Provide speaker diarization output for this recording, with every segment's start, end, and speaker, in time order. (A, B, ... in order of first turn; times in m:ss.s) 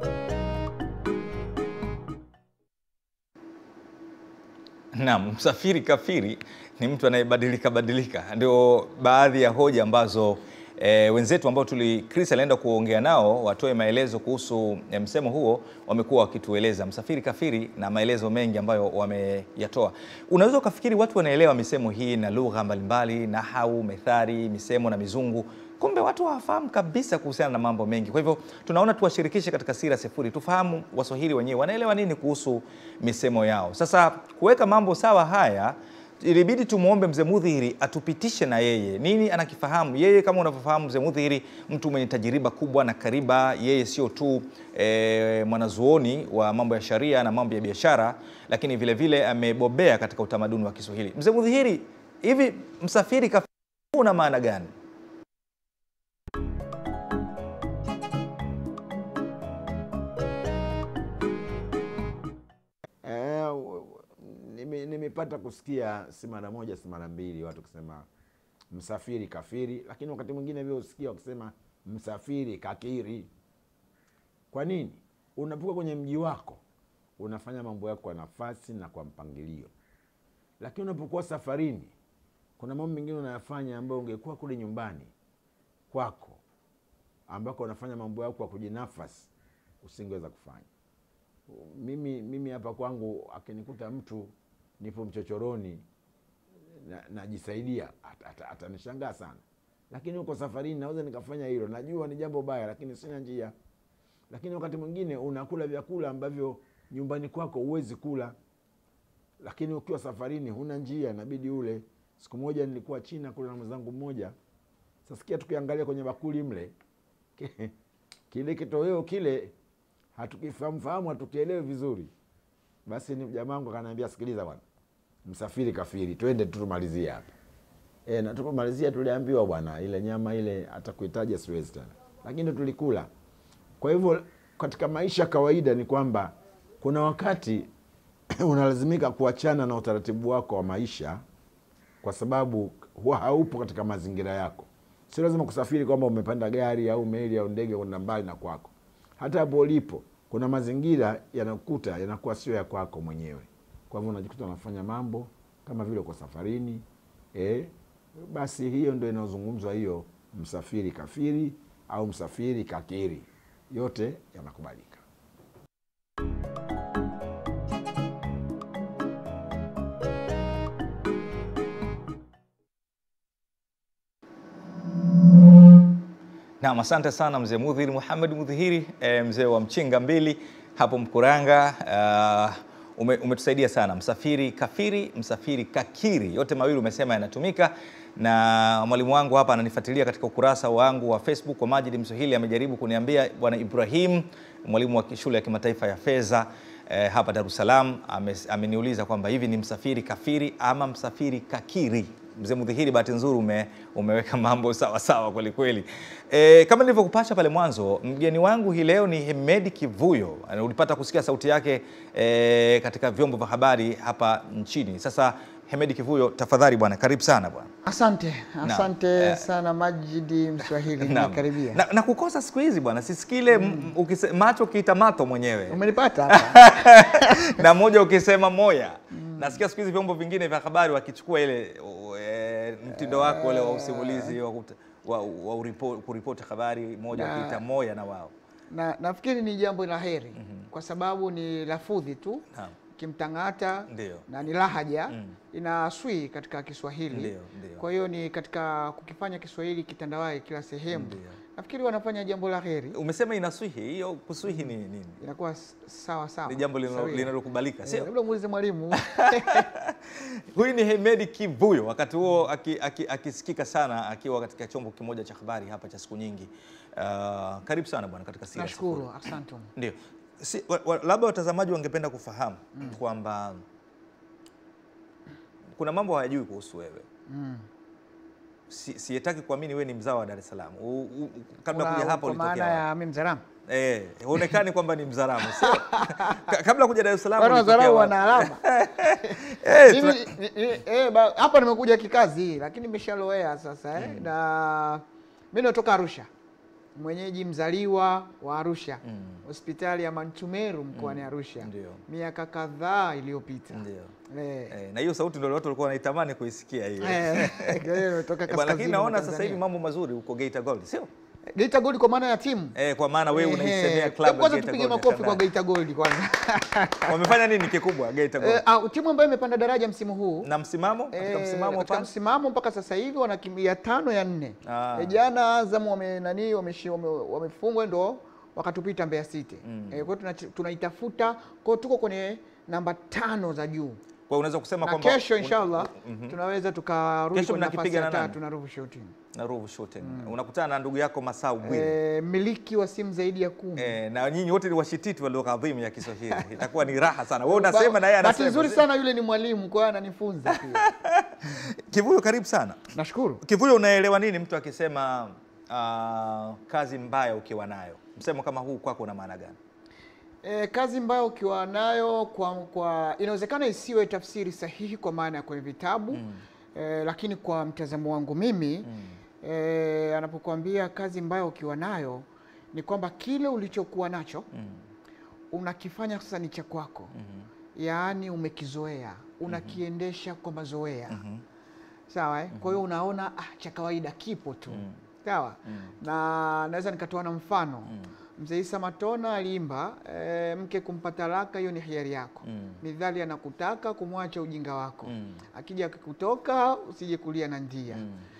0:04.9-0:54.7 A
1:03.0-1:08.1 B
1:08.7-1:13.3 B
1:14.5-1:16.6 B
1:17.2-1:19.7 B
1:20.6-1:21.9 B
1:22.6-1:25.1 B
1:25.9-1:26.4 B
1:27.3-1:29.3 B
1:29.8-1:30.7 B
1:31.5-1:35.8 B
1:36.7-1:43.5 B
1:44.3-1:48.4 B
1:49.4-1:54.3 B
1:55.0-1:56.7 B
1:57.4-1:57.7 B
1:58.3-1:59.5 B
2:00.1-2:02.1 B
2:02.8-2:04.6 B
2:05.2-2:07.3 B
2:08.0-2:13.1 B
2:13.8-2:17.7 B
2:18.4-2:21.2 B
2:22.0-2:45.0 B
2:56.6-3:37.7 A
3:37.8-3:41.8 C
3:38.6-3:39.4 A
3:41.0-3:58.3 A
3:43.5-3:43.9 C
3:45.7-3:47.4 C
3:49.1-3:49.6 C
3:52.9-3:54.3 C
3:57.1-3:57.6 C
3:58.7-4:02.4 C
4:00.4-4:00.7 A
4:03.0-4:13.0 C
4:03.9-4:04.3 A
4:07.1-4:07.8 A
4:10.9-4:11.4 A
4:12.9-4:15.2 A
4:14.4-4:14.7 C
4:15.2-4:17.3 C
4:16.5-4:18.1 A
4:17.8-4:19.6 C
4:19.0-4:20.0 A
4:20.5-4:29.2 A
4:28.5-4:29.7 C
4:29.8-4:33.6 A
4:35.8-4:37.0 A
4:37.3-4:37.6 C
4:38.7-4:42.8 A
4:41.7-4:43.4 C
4:43.7-4:50.3 A
4:45.4-4:46.5 C
4:47.4-4:56.3 C
4:54.0-4:54.2 A
4:57.0-5:04.7 C
4:59.1-4:59.4 A
5:00.9-5:02.0 A
5:03.7-5:04.1 A
5:04.7-5:11.1 A
5:07.0-5:09.6 C
5:11.5-5:12.7 C
5:12.7-5:15.4 A
5:13.3-5:17.4 C
5:17.1-5:18.6 A
5:18.4-5:20.5 C
5:20.4-5:22.1 A
5:21.1-5:34.0 C
5:24.6-5:25.2 A
5:29.6-5:30.1 A
5:34.3-5:36.4 A
5:34.8-5:39.1 C
5:37.3-5:38.4 A
5:39.3-5:42.0 A
5:40.0-5:40.3 C
5:41.6-5:44.0 C
5:43.8-5:48.8 A
5:46.3-5:46.6 C
5:47.5-5:50.9 C
5:50.7-5:52.9 A
5:52.9-5:53.4 C
5:53.4-5:59.6 A
6:00.4-6:06.2 C
6:06.1-6:06.4 A
6:06.7-6:08.9 C
6:08.8-6:09.2 A
6:09.4-6:14.5 C
6:14.5-6:14.8 A
6:15.5-6:17.1 C
6:17.1-6:17.4 A
6:17.7-6:21.2 C
6:19.5-6:19.8 A
6:21.1-6:21.4 A
6:22.1-6:38.0 C
6:22.5-6:22.8 A
6:24.7-6:25.0 A
6:25.7-6:25.9 A
6:32.4-6:32.8 A
6:35.0-6:35.4 A
6:37.9-6:38.2 A